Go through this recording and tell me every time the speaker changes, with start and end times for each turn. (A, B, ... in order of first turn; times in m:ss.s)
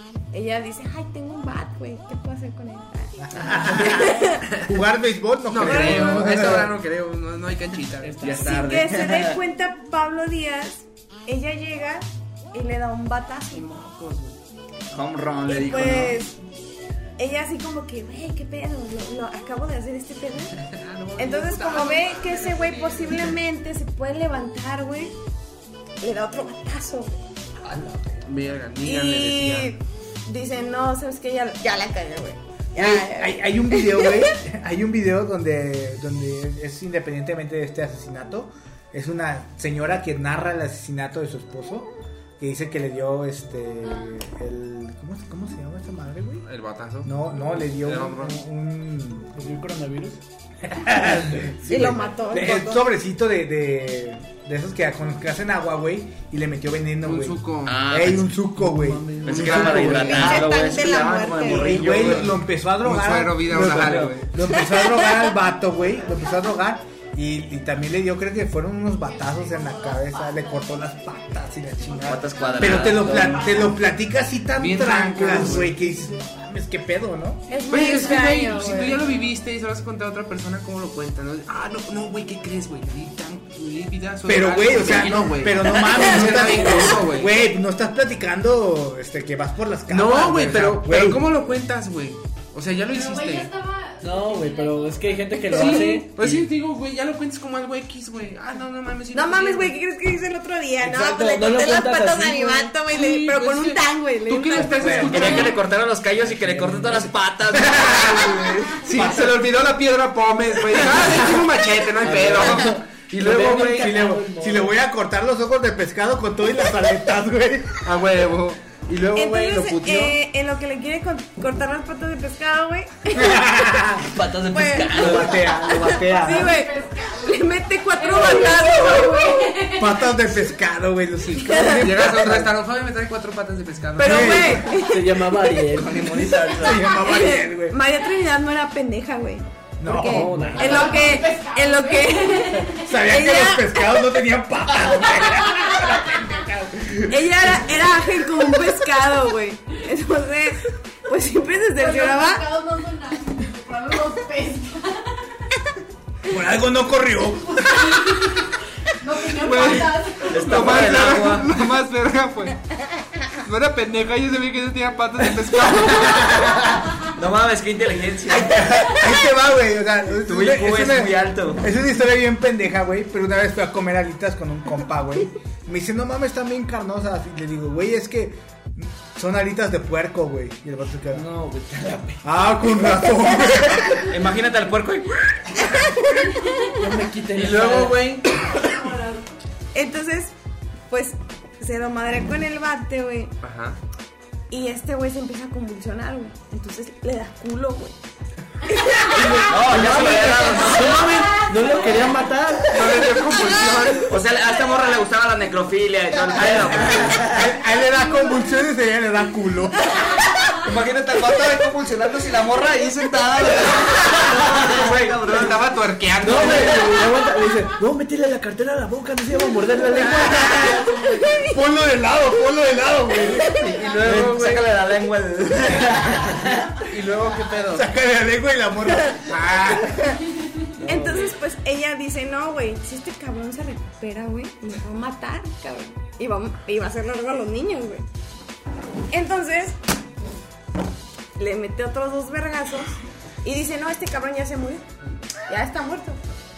0:00.3-0:04.5 A
0:03.2-0:06.7 B
0:05.5-0:09.0 C
0:05.6-0:06.5 A
0:08.0-0:08.8 D
0:08.2-0:13.7 A
0:13.5-0:14.4 C
0:14.9-0:16.2 E
0:15.4-0:16.4 A
0:17.2-0:20.6 A
0:20.6-0:23.0 C
0:21.2-0:25.1 A
0:22.9-0:23.2 F
0:26.0-0:27.2 A
0:27.6-0:28.2 B
0:28.2-0:29.7 C
0:28.8-0:34.3 A
0:32.7-0:46.4 B
0:46.4-0:47.1 C
0:47.0-0:49.4 B
0:47.8-0:48.4 C
0:49.4-0:50.2 D
0:50.6-1:00.6 B
0:51.1-0:51.6 D
0:51.6-0:52.8 A
0:57.0-0:57.8 C
0:57.6-0:58.3 E
0:58.6-1:00.2 D
0:59.2-1:02.3 E
0:59.2-1:00.4 C
1:00.1-1:02.0 A
1:01.4-1:17.4 B
1:02.0-1:04.6 C
1:04.5-1:05.2 A
1:09.1-1:11.1 F
1:12.0-1:13.8 F
1:12.1-1:13.6 E
1:14.6-1:15.7 C
1:17.5-1:18.6 F
1:17.5-1:19.0 A
1:17.7-1:27.4 C
1:24.2-1:31.2 B
1:29.9-1:33.5 C
1:32.9-1:35.6 F
1:34.0-1:36.2 D
1:35.5-1:39.7 C
1:39.1-1:45.5 A
1:40.8-1:42.7 D
1:42.9-1:45.6 C
1:44.5-1:45.5 B
1:45.1-1:48.4 E
1:46.3-1:47.1 D
1:47.5-1:49.5 B
1:47.8-1:53.9 C
1:50.7-1:51.4 B
1:52.0-1:52.5 B
1:52.1-1:52.7 E
1:52.2-1:54.7 D
1:53.4-1:57.8 B
1:57.8-2:00.2 C
1:59.1-2:09.6 A
2:03.1-2:04.1 B
2:04.0-2:05.6 E
2:04.9-2:06.5 B
2:06.0-2:10.2 F
2:09.7-2:12.5 B
2:11.3-2:12.1 A
2:11.6-2:14.6 C
2:14.0-2:15.6 A
2:14.0-2:14.7 B
2:14.7-2:16.4 D
2:15.7-2:16.8 E
2:16.6-2:17.8 B
2:16.8-2:24.0 A
2:19.8-2:20.6 B
2:20.0-2:21.2 D
2:20.6-2:22.9 F
2:22.8-2:27.8 B
2:25.2-2:25.9 F
2:27.0-2:32.5 A
2:31.7-2:35.1 F
2:36.3-2:38.2 B
2:37.3-2:38.5 F
2:39.0-2:41.0 F
2:39.4-2:42.6 C
2:40.3-2:41.5 E
2:43.4-2:46.6 C
2:47.1-2:48.8 E
2:48.3-3:01.3 B
2:50.3-2:51.6 E
3:01.1-3:02.2 D
3:02.2-3:04.1 B
3:04.0-3:05.4 E
3:05.8-3:06.1 A
3:06.8-3:08.1 D
3:07.3-3:08.4 C
3:08.5-3:09.2 F
3:09.7-3:10.3 A
3:10.9-3:13.3 A
3:13.4-3:13.8 C
3:14.5-3:18.0 A
3:18.6-3:19.5 A
3:19.1-3:23.0 D
3:19.5-3:21.1 E
3:21.8-3:22.1 E
3:22.7-3:24.1 C
3:23.3-3:23.9 A
3:24.0-3:27.6 E
3:26.4-3:30.1 B
3:30.6-3:35.6 E
3:34.6-3:36.8 C
3:36.2-3:40.8 D
3:39.9-3:43.7 B
3:41.0-3:41.6 A
3:43.7-3:44.7 C
3:43.9-3:46.6 E
3:46.9-3:47.9 C
3:47.7-3:50.1 B
3:49.3-3:49.9 C
3:50.8-3:51.4 D
3:50.8-3:58.0 A
3:59.1-3:59.8 A
4:01.4-4:04.9 A
4:05.5-4:06.2 A